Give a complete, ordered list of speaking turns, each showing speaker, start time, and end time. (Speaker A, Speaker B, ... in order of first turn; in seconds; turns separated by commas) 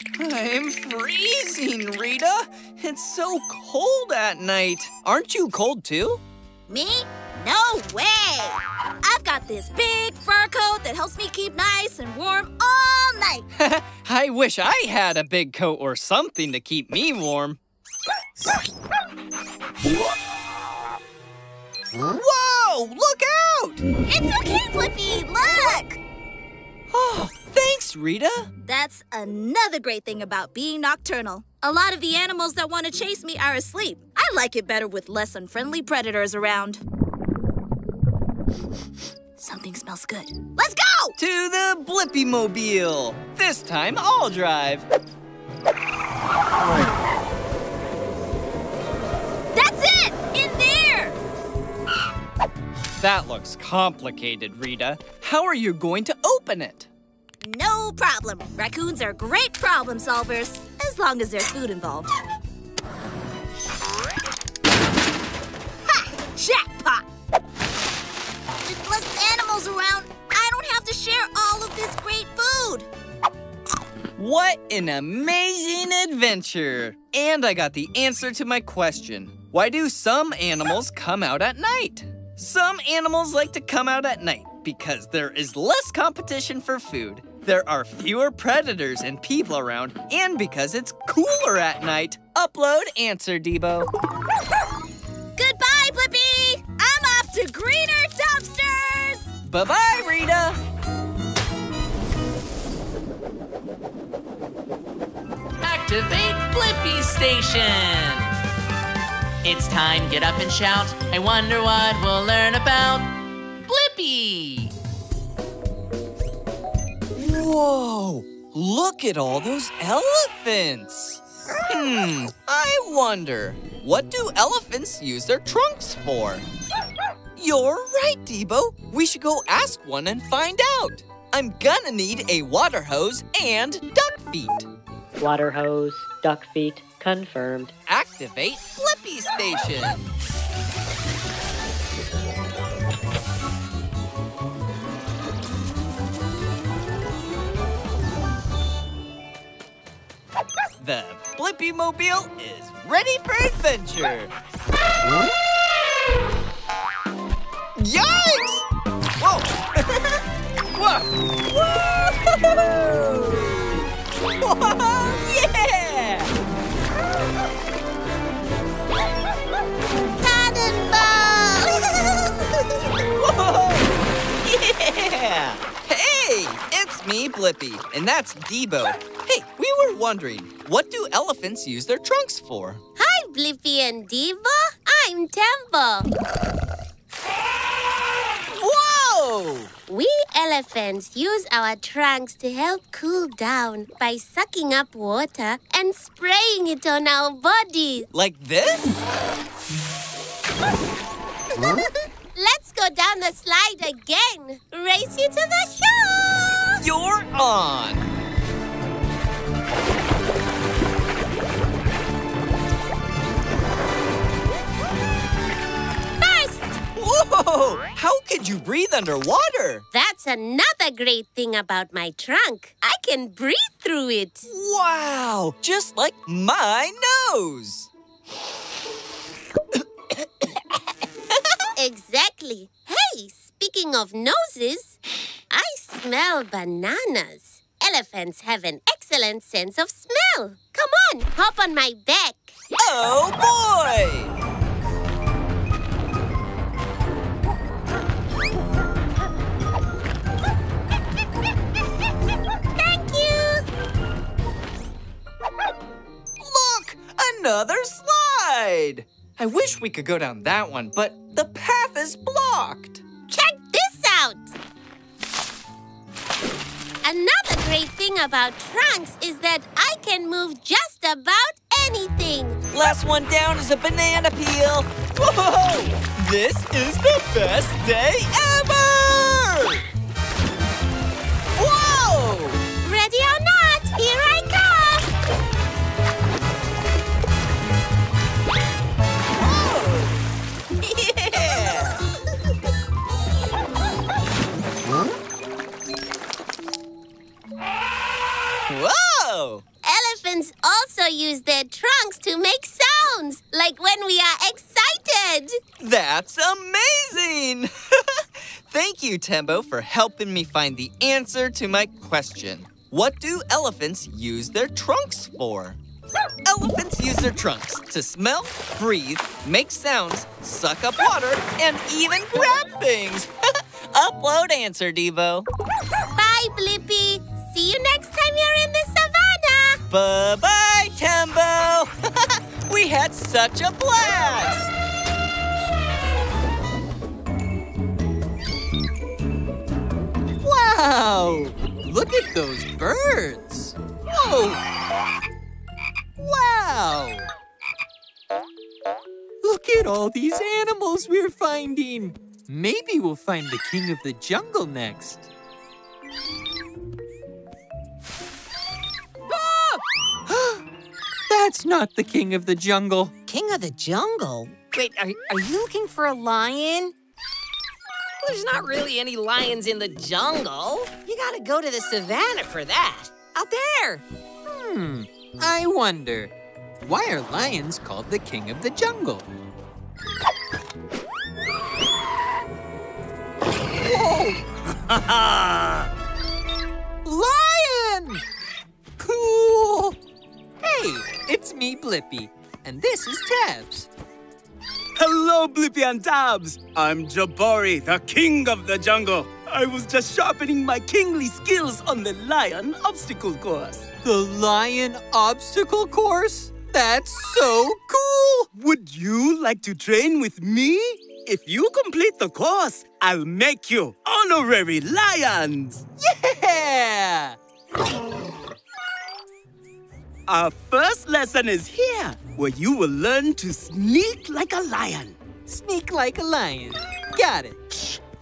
Speaker A: 0.1-6.2, Speaker B: 6.7-13.4, Speaker A: 13.5-17.6, Speaker A: 22.1-23.8, Speaker B: 24.1-26.0, Speaker A: 26.9-28.5, Speaker B: 28.6-36.8, Speaker B: 39.4-41.1, Speaker A: 41.1-44.8, Speaker B: 49.5-51.1, Speaker A: 53.0-56.9, Speaker B: 57.4-62.1, Speaker B: 66.3-67.0, Speaker B: 68.7-72.9, Speaker A: 74.2-93.9, Speaker B: 95.4-99.2, Speaker A: 99.4-100.6, Speaker C: 105.6-108.3, Speaker C: 109.4-113.1, Speaker A: 113.7-114.7, Speaker A: 117.1-126.5, Speaker A: 127.4-134.7, Speaker D: 135.2-137.7, Speaker A: 137.9-140.1, Speaker A: 150.8-154.3, Speaker A: 157.8-158.6, Speaker A: 159.2-160.2, Speaker A: 160.8-163.7, Speaker A: 164.4-166.3, Speaker E: 170.2-171.4, Speaker A: 173.1-173.9, Speaker A: 174.4-182.8, Speaker E: 183.0-186.1, Speaker A: 188.5-189.7, Speaker E: 189.9-198.1, Speaker A: 198.1-198.9, Speaker E: 202.3-206.8, Speaker A: 206.8-208.1, Speaker E: 216.2-216.8, Speaker A: 216.9-219.8, Speaker E: 219.9-224.4, Speaker A: 224.5-227.9, Speaker E: 231.8-235.0, Speaker E: 235.5-242.5, Speaker A: 242.8-244.3, Speaker E: 252.8-253.6, Speaker A: 256.4-263.0, Speaker E: 263.3-264.5, Speaker E: 267.0-272.6, Speaker A: 272.7-279.8, Speaker A: 281.5-282.6, Speaker E: 282.8-285.1, Speaker A: 289.4-290.1, Speaker A: 290.9-292.0, Speaker A: 298.7-299.6, Speaker E: 299.8-305.6, Speaker A: 305.8-315.8, Speaker A: 316.4-323.3, Speaker A: 323.9-325.5, Speaker E: 326.1-329.8, Speaker A: 329.9-331.9, Speaker A: 332.6-334.7, Speaker F: 340.4-344.6, Speaker F: 346.2-347.3, Speaker F: 349.4-355.3, Speaker F: 361.3-363.1, Speaker G: 363.2-366.9, Speaker G: 368.2-374.0, Speaker F: 374.5-376.3, Speaker F: 376.8-379.3, Speaker F: 383.8-384.4, Speaker H: 384.8-385.9, Speaker F: 387.0-388.2, Speaker F: 389.0-390.0, Speaker F: 390.6-393.9, Speaker H: 394.9-403.9, Speaker F: 404.0-408.5, Speaker H: 408.5-415.9, Speaker F: 416.0-417.4, Speaker H: 420.3-425.2, Speaker F: 425.4-427.6